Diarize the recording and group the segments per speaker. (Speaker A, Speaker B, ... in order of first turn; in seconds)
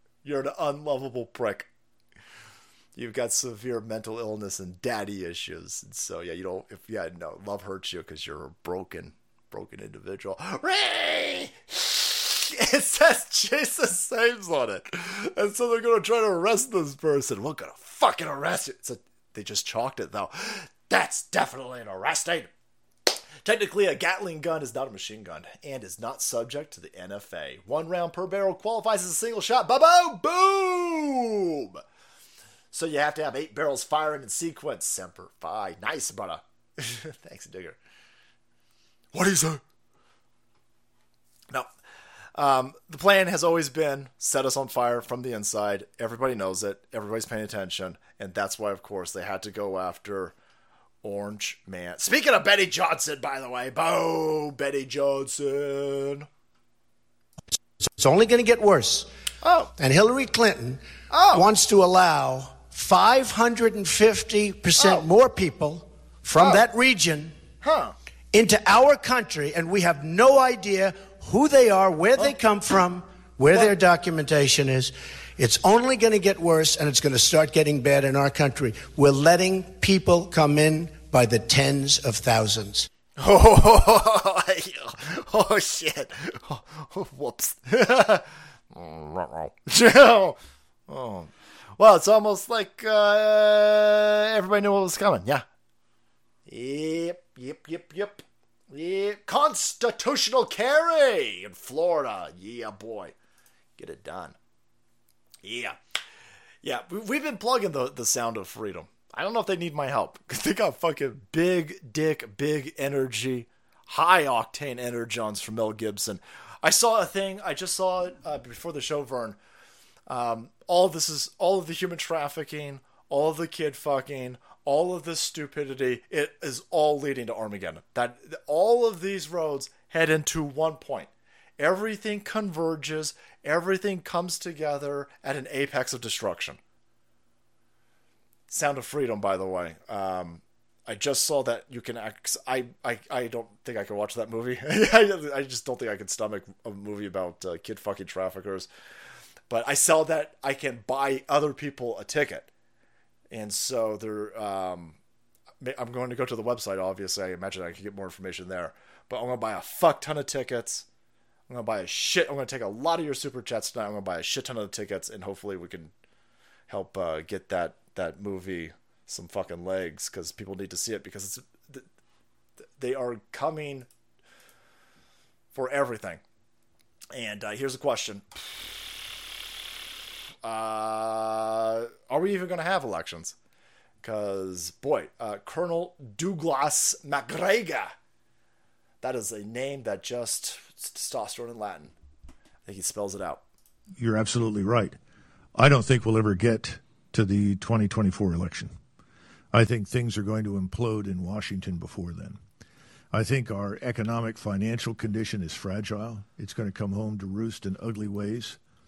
Speaker A: 0.2-1.7, 3.0-22.5, 23.4-31.8, 32.7-37.8, 39.1-39.6, 42.4-50.4, 51.0-56.3, 59.4-59.7, 61.1-61.5, 64.8-65.1, 66.4-66.7, 67.6-68.0, 83.2-95.5, 96.5-103.1, 103.8-104.4, 105.4-105.8, 106.6-119.4, 120.1-136.6, 138.5-148.7, 149.5-152.5, 153.3-155.0, 155.6-160.9, 161.5-165.9, 166.7-171.9, 172.8-173.9, 175.5-176.2, 177.1-179.2, 180.4-183.4, 184.0-187.9, 189.0-191.9, 192.7-193.4
Speaker B: 58.0-59.1, 59.8-67.4, 68.3-82.9
Speaker C: 194.0-195.0, 195.6-198.8, 199.5-202.4, 203.1-208.6